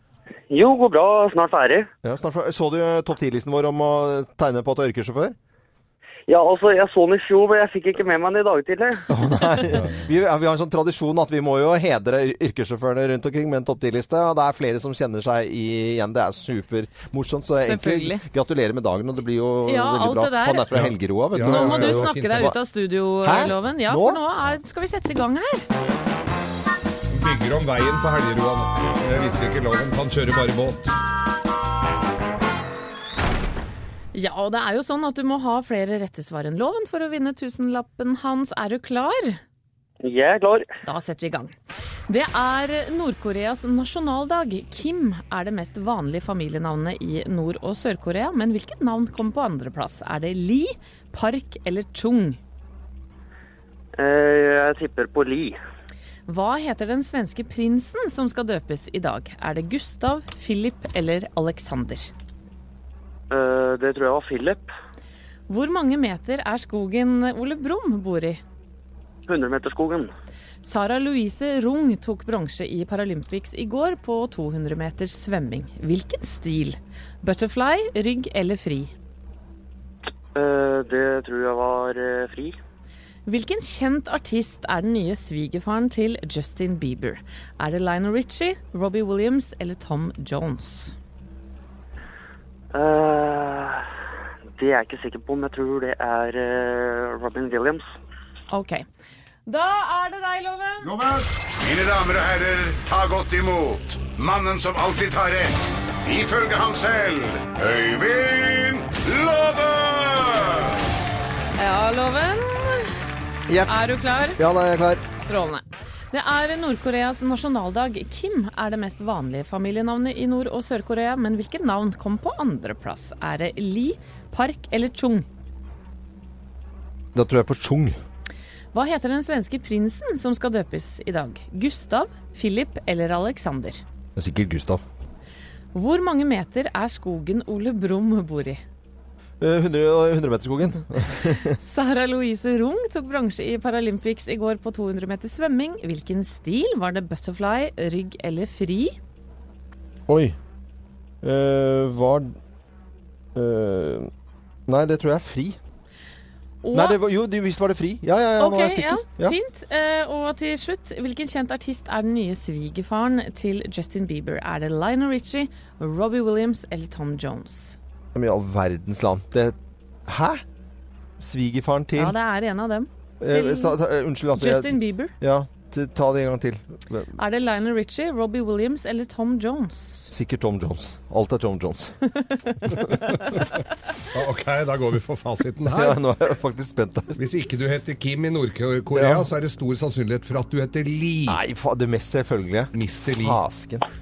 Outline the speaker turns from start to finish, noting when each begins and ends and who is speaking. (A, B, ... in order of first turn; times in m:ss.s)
0:00.5-0:01.9 A
0:02.0-0:05.4 B
0:06.3-0:09.0 A
0:09.1-0:22.6 B
0:17.6-0:18.2 C
0:19.6-0:20.6 C
0:20.7-0:22.5 D
0:21.4-0:25.6 C
0:23.2-0:24.2 B
0:27.1-0:30.9 D
0:34.1-0:39.4 C
0:40.0-0:40.7 A
0:40.8-0:41.5 C
0:42.1-0:52.4 C
0:54.0-0:55.6 A
0:56.3-1:02.1 C
1:03.3-1:04.7 A
1:05.5-1:08.4 C
1:09.3-1:10.1 A
1:10.6-1:18.9 C
1:20.3-1:22.6 A
1:23.3-1:30.9 C
1:32.7-1:33.8 A
1:34.6-1:37.8 A
1:38.5-1:38.8 C
1:39.5-1:40.9 C
1:41.7-1:44.9 E
1:46.1-1:49.8 E
1:51.6-1:52.9 C
1:53.5-1:53.7 B
1:53.6-1:54.4 C
1:54.4-1:55.0 B
1:55.3-2:05.3 C
2:07.1-2:08.0 B
2:08.7-2:13.8 C
2:14.2-2:14.8 B
2:15.7-2:18.6 C
2:19.4-2:21.6 B
2:21.5-2:29.0 C
2:30.1-2:30.4 B
2:31.2-2:32.3 B
2:33.3-2:34.1 B
2:34.7-2:35.6 B
2:36.6-2:37.0 C
2:36.7-2:39.4 B
2:38.4-2:47.8 C
2:48.1-2:50.4 B
2:51.2-2:52.2 B
2:52.0-2:53.8 C
2:53.2-2:57.1 B
2:54.4-2:55.1 C
2:57.2-3:00.1 C
3:00.1-3:02.0 B
3:02.3-3:02.6 C
3:03.0-3:03.5 D
3:04.1-3:06.0 D
3:05.7-3:07.2 B
3:07.2-3:11.4 D
3:08.9-3:09.3 B
3:11.3-3:13.8 B
3:12.7-3:13.4 D